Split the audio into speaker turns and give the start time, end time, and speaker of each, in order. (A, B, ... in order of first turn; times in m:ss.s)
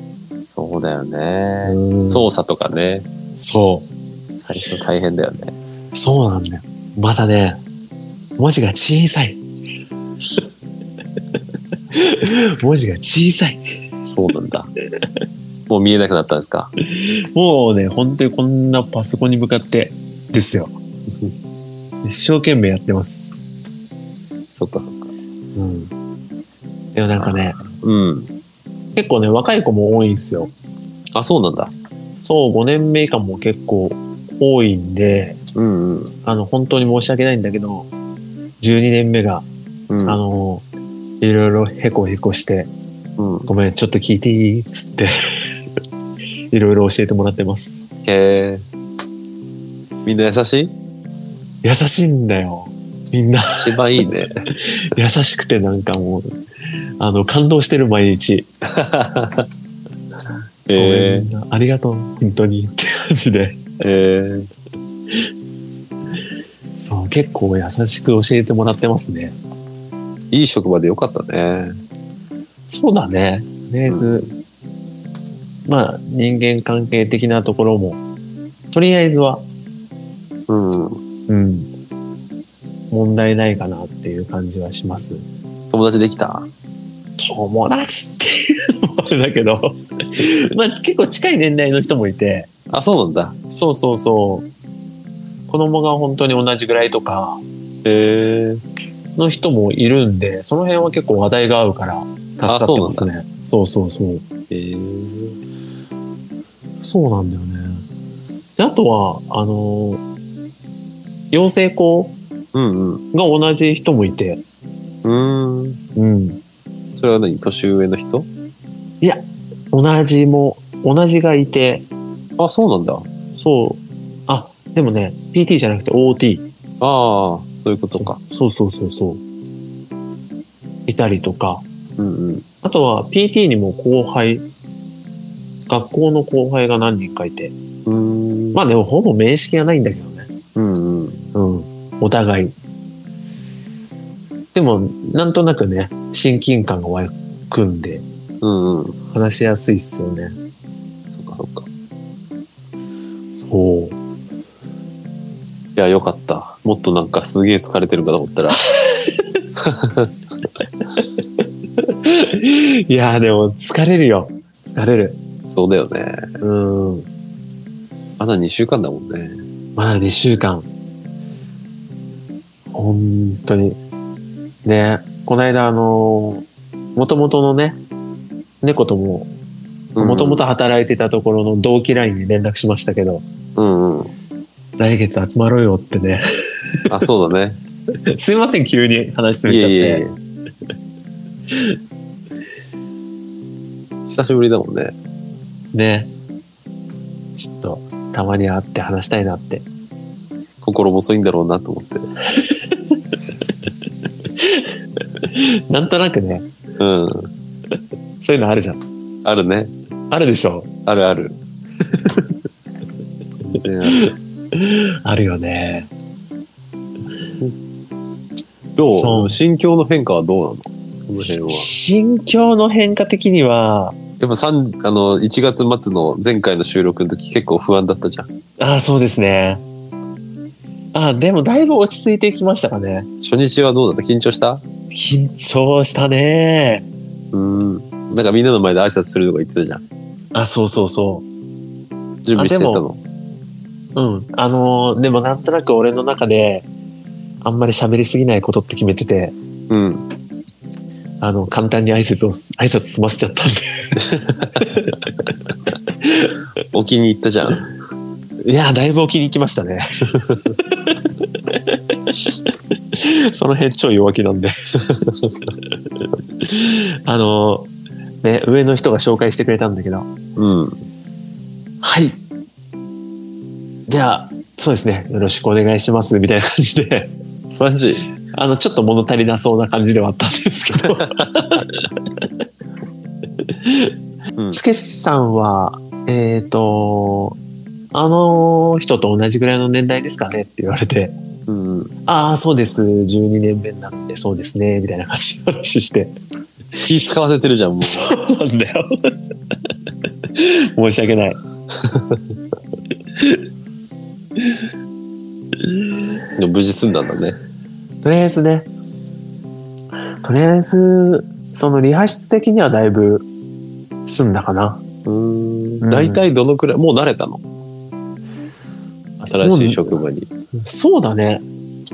0:00.4-0:03.1 A
0:01.6-0:02.3 B
0:03.4-0:03.9 B
0:04.4-0:05.6 A
0:05.9-0:07.6 B
0:08.4-0:09.4 B
0:11.9-0:13.6 B
0:14.0-0:14.7 A
0:15.7-0:16.7 A
0:16.8-0:20.7 B
0:22.0-0:23.4 B
0:24.5-0:25.1 A
0:25.6-0:25.9 B
0:27.0-0:27.6 B
0:27.2-0:28.3 A
0:29.0-0:30.5 B
0:31.1-0:31.7 A
0:32.2-0:35.4 B
0:35.6-0:36.2 A
0:36.2-0:37.9 B
0:38.6-0:39.5 B
0:39.9-0:40.2 A
0:40.0-0:40.6 B
0:41.2-0:42.7 B
0:43.2-0:43.5 A
0:43.5-0:45.1 B
0:46.5-0:47.8 B
0:48.0-0:48.6 A
0:50.0-0:50.7 A
0:51.6-0:53.8 B
0:53.6-0:54.3 A
0:54.5-0:56.3 B
0:57.0-0:58.5 B
0:58.7-0:59.5 A
1:00.7-1:01.3 A
1:00.8-1:03.6 B
1:03.8-1:04.5 A
1:06.8-1:09.4 B
1:10.3-1:11.8 A
1:12.7-1:14.3 B
1:13.9-1:14.2 A
1:15.7-1:18.0 B
1:18.7-1:19.4 B
1:20.5-1:21.0 A
1:21.3-1:21.7 B
1:22.9-1:25.3 B
1:25.7-1:26.5 A
1:27.2-1:32.5 B
1:32.7-1:33.4 A
1:33.5-1:34.5 B
1:35.5-1:37.4 B
1:37.8-1:38.6 A
1:39.2-1:44.2 B
1:42.5-1:43.1 A
1:44.5-1:45.4 A
1:46.8-1:47.8 B
1:48.6-1:50.0 B
1:51.3-1:52.2 B
1:52.5-1:53.0 A
1:53.1-1:54.4 B
1:55.0-1:55.8 A
1:56.0-1:56.4 B
1:57.0-1:58.3 A
1:59.0-2:01.9 B
2:02.4-2:03.1 A
2:03.4-2:06.4 B
2:06.8-2:08.2 A
2:08.0-2:09.2 B
2:10.9-2:11.6 B
2:12.0-2:12.4 A
2:12.6-2:14.4 B
2:15.7-2:17.5 B
2:17.9-2:18.6 A
2:18.5-2:20.3 B
2:20.6-2:21.2 A
2:21.3-2:22.5 B
2:24.5-2:28.0 B
2:28.4-2:29.0 A
2:29.1-2:30.3 B
2:31.1-2:31.7 A
2:33.4-2:34.0 B
2:35.8-2:38.6 A
2:38.7-2:39.2 B
2:39.6-2:40.1 A
2:41.8-2:45.2 B
2:45.5-2:46.3 A
2:46.4-2:47.1 B
2:48.2-2:49.4 A
2:49.8-2:50.7 B
2:52.7-2:53.8 B
2:54.6-2:56.4 B
2:57.0-2:57.8 B
2:58.6-2:59.3 B
3:00.0-3:00.4 A
3:00.0-3:03.2 B
3:03.6-3:04.1 A
3:04.8-3:07.1 B
3:06.9-3:07.6 A
3:08.1-3:10.0 B
3:09.5-3:10.2 A
3:11.5-3:11.8 B
3:14.0-3:15.0 A
3:15.7-3:16.1 B
3:17.4-3:19.6 B
3:20.6-3:22.1 A
3:22.3-3:23.0 B
3:24.4-3:26.5 B
3:26.8-3:27.3 A
3:28.2-3:28.8 B
3:29.2-3:29.7 A
3:30.1-3:30.7 B
3:30.9-3:31.4 A
3:32.0-3:32.2 B
3:33.4-3:34.1 A
3:33.9-3:35.9 B
3:38.8-3:41.7 A
3:38.9-3:39.4 B
3:41.5-3:44.0 B
3:44.2-3:48.3 A
3:48.6-3:49.6 B
3:50.9-3:53.1 B
3:53.2-3:54.6 A
3:54.9-3:56.9 B
3:57.3-3:59.8 A
4:00.3-4:01.3 B
4:02.2-4:03.0 A
4:02.3-4:02.8 B
4:04.0-4:06.7 B
4:07.4-4:09.3 B
4:09.7-4:10.0 A
4:11.2-4:15.1 B
4:16.0-4:16.4 B
4:16.7-4:17.7 A
4:18.4-4:25.2 B
4:26.4-4:27.7 B
4:28.2-4:30.1 B
4:30.4-4:30.8 A
4:31.8-4:32.2 B
4:33.9-4:37.1 B
4:37.6-4:38.0 A
4:38.3-4:42.3 B
4:43.4-4:43.9 B
4:44.5-4:47.4 B
4:47.9-4:51.1 B
4:51.5-4:51.9 A
4:52.1-4:56.1 B
4:56.8-4:58.1 A
4:57.8-4:59.1 B
5:00.3-5:01.4 B
5:03.2-5:03.4 B
5:04.4-5:04.7 B
5:05.6-5:06.1 B
5:06.4-5:07.4 A
5:08.0-5:08.7 B
5:10.2-5:13.3 B
5:14.1-5:14.8 B
5:15.0-5:17.4 A
5:15.8-5:16.2 B
5:19.2-5:19.9 B
5:19.3-5:20.3 A
5:20.6-5:21.4 B